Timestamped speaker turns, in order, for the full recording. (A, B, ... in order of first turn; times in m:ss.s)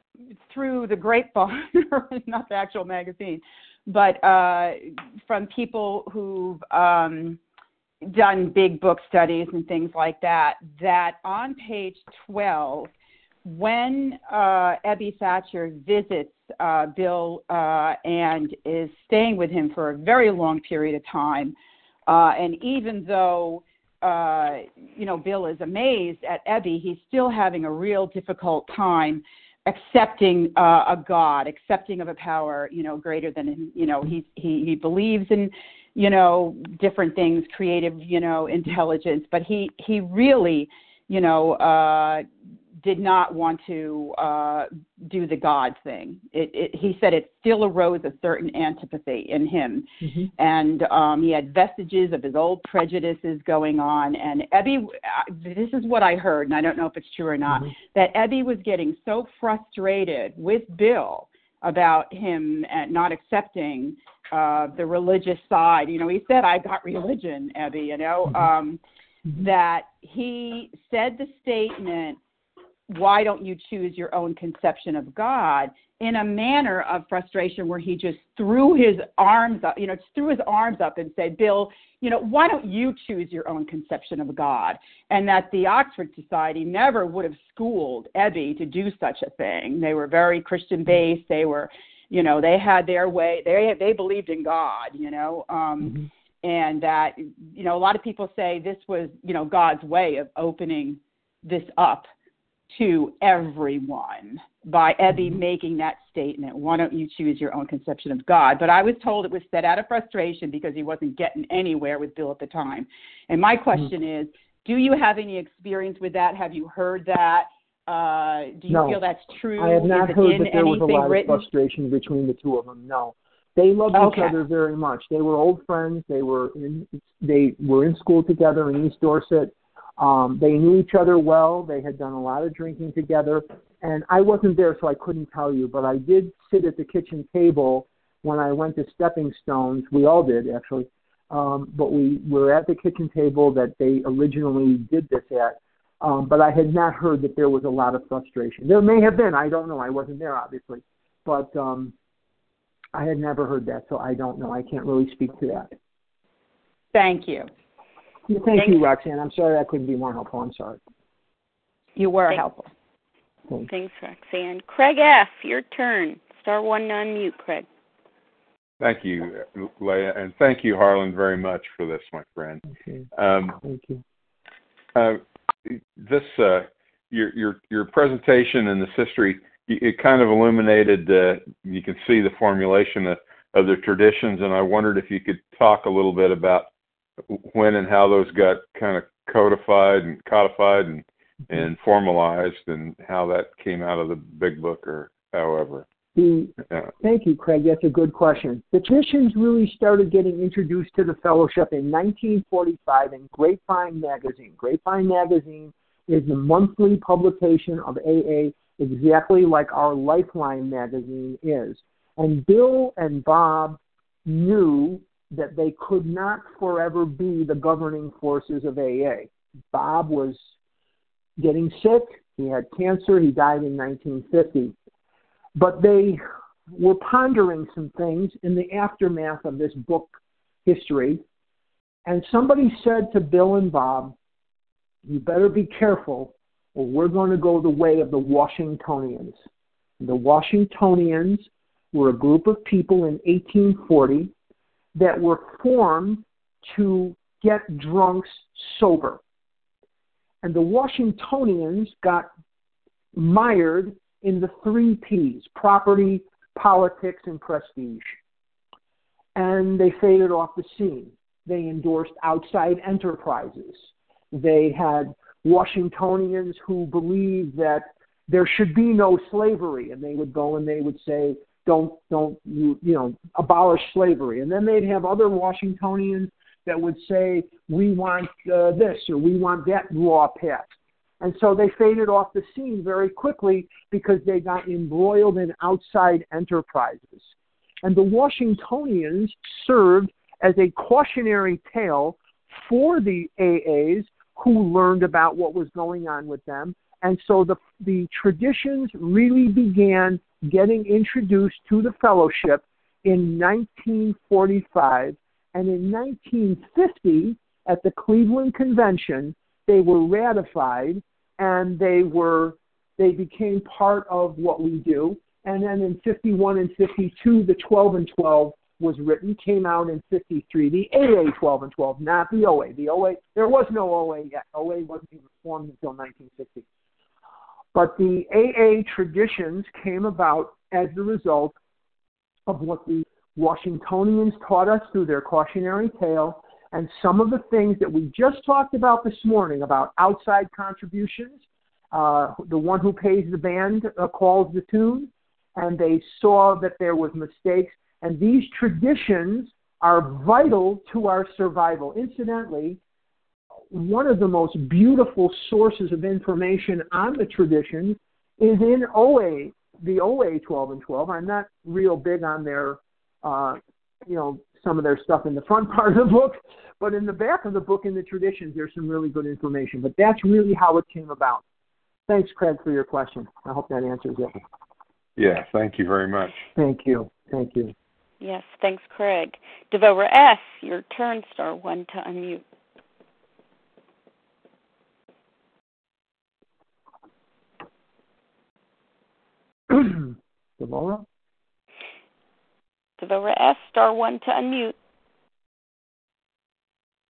0:00.5-0:07.4 A
0:08.0-0:12.9 A
0:13.4-0:21.6 A
0:22.1-0:42.3 A
0:42.8-0:49.8 A
0:50.4-1:08.8 A
1:09.3-1:12.2 A
1:12.9-1:42.1 A
1:42.7-2:01.4 A
1:58.7-1:59.0 B
1:59.6-2:31.9 B
2:03.9-2:04.2 A
2:32.9-2:35.7 B
2:36.9-2:37.5 A
2:38.3-2:40.8 B
2:42.0-2:42.7 A
2:43.7-2:47.6 C
2:48.8-2:53.6 D
2:53.6-2:54.0 B
2:54.9-3:06.7 D
3:07.3-3:15.8 D
3:16.1-3:40.4 B
3:41.4-3:44.7 B
3:45.6-3:51.2 B
3:52.1-3:54.1 B
3:55.1-3:59.4 B
4:00.0-4:04.3 B
4:04.9-4:09.2 B
4:10.4-4:12.3 B
4:13.1-4:18.2 B
4:19.4-4:47.3 B
4:47.8-5:26.6 B
5:27.7-5:31.6 B
5:32.5-5:41.4 B
5:41.9-5:52.8 B
5:53.7-6:11.4 B
6:12.1-6:14.4 B
6:15.2-6:16.3 D
6:16.6-6:17.7 B
6:18.2-6:22.4 C
6:29.7-6:31.1 B
6:33.0-6:34.7 C